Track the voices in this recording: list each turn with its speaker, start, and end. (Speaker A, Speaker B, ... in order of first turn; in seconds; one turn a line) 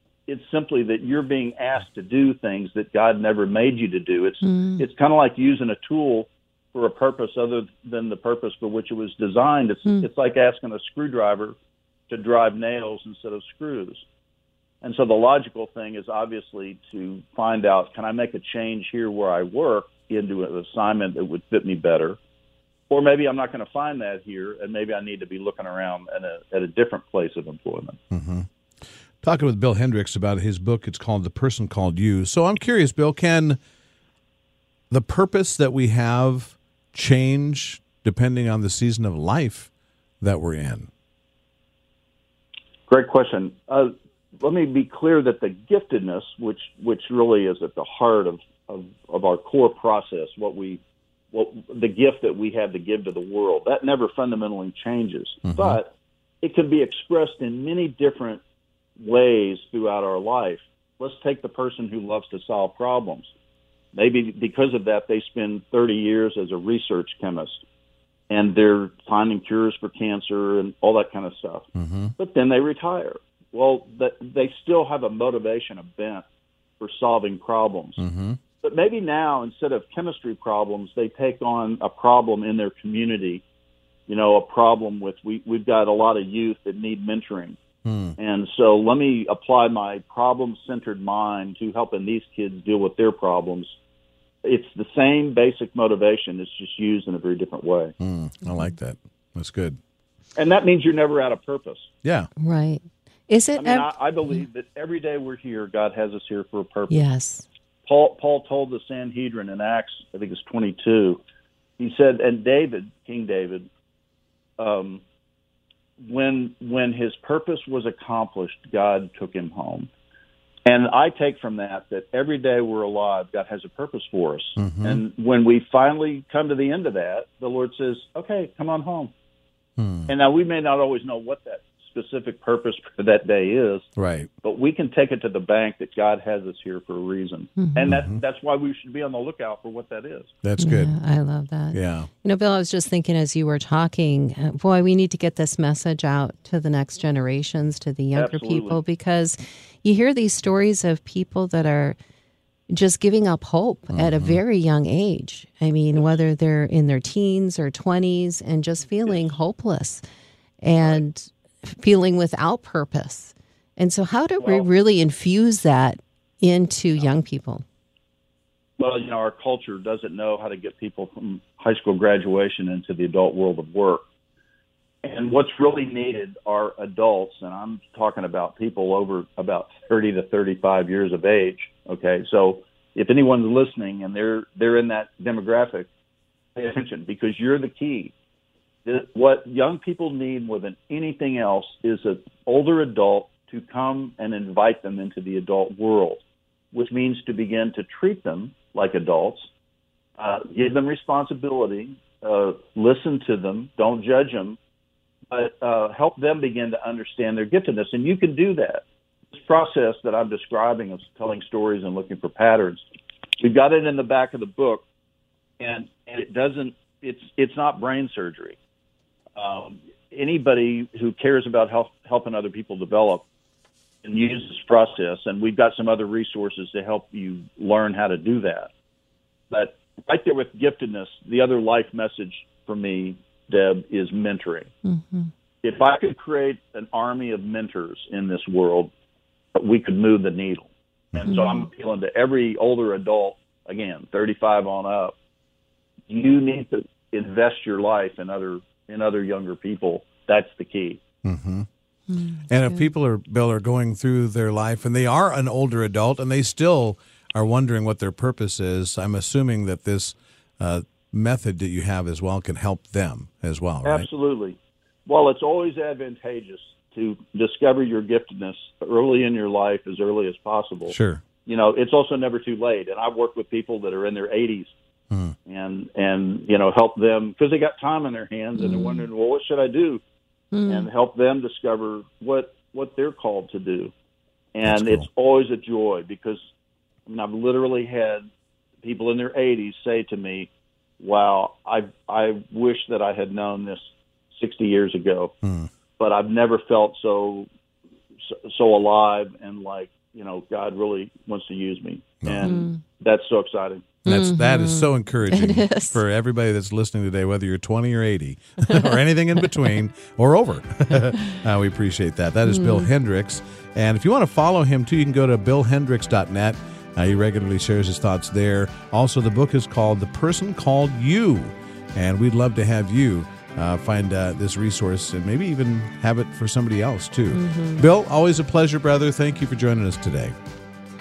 Speaker A: 0.3-11.6
Speaker B: 4.4-4.8
Speaker A: 12.1-14.0
Speaker A: 14.8-22.2
Speaker A: 22.9-28.0
Speaker C: 28.1-28.5
Speaker C: 29.2-33.6
Speaker C: 34.9-40.9
Speaker A: 42.9-50.8
Speaker A: 51.3-58.4
Speaker C: 55.5-55.8
Speaker A: 59.0-63.3
Speaker A: 63.9-67.6
Speaker A: 68.3-71.7
Speaker C: 71.8-72.1
Speaker A: 72.2-76.2
Speaker A: 76.8-78.0
Speaker C: 78.0-78.4
Speaker A: 78.6-83.4
Speaker A: 84.1-87.6
Speaker C: 87.8-88.2
Speaker A: 88.2-93.8
Speaker A: 94.4-97.9
Speaker C: 98.0-99.8
Speaker B: 98.5-98.7
Speaker A: 100.4-101.9
Speaker C: 102.0-102.3
Speaker B: 102.4-103.9
Speaker A: 103.6-107.0
Speaker B: 106.9-107.5
Speaker A: 107.9-111.2
Speaker A: 111.8-113.7
Speaker A: 114.6-115.0
Speaker A: 116.0-119.9
Speaker A: 120.7-129.1
Speaker C: 124.6-125.0
Speaker C: 129.8-130.1
Speaker A: 130.1-133.9
Speaker C: 134.0-134.3
Speaker A: 134.4-140.3
Speaker B: 137.6-137.9
Speaker C: 137.9-138.2
Speaker C: 140.4-140.9
Speaker B: 140.6-152.0
Speaker C: 141.7-142.1
Speaker A: 148.2-148.8
Speaker B: 152.7-160.0
Speaker C: 153.9-154.4
Speaker B: 160.6-167.6
Speaker A: 164.4-164.7
Speaker A: 168.8-174.0
Speaker A: 175.0-185.9
Speaker A: 186.6-188.1
Speaker A: 188.9-196.2
Speaker A: 196.7-199.5
Speaker A: 200.2-204.6
Speaker A: 205.3-212.9
Speaker A: 213.4-214.8
Speaker A: 215.6-218.6
Speaker A: 219.3-223.3
Speaker A: 224.0-228.7
Speaker A: 229.5-234.7
Speaker B: 234.8-235.3
Speaker A: 235.6-238.9
Speaker A: 239.6-245.2
Speaker B: 241.3-241.6
Speaker A: 246.1-251.0
Speaker C: 251.2-251.7
Speaker B: 252.1-252.9
Speaker C: 252.5-264.1
Speaker A: 263.9-270.9
Speaker C: 270.9-271.2
Speaker A: 271.5-274.7
Speaker A: 275.5-280.0
Speaker B: 278.6-279.0
Speaker B: 280.5-280.9
Speaker A: 280.7-283.9
Speaker A: 284.6-286.4
Speaker C: 284.6-285.1
Speaker A: 287.1-288.3
Speaker A: 288.8-295.3
Speaker C: 295.4-295.7
Speaker A: 296.0-297.5
Speaker A: 298.2-303.9
Speaker C: 302.2-302.5
Speaker B: 302.4-302.8
Speaker B: 304.1-306.0
Speaker C: 304.1-330.4
Speaker B: 312.5-312.9
Speaker B: 327.3-327.9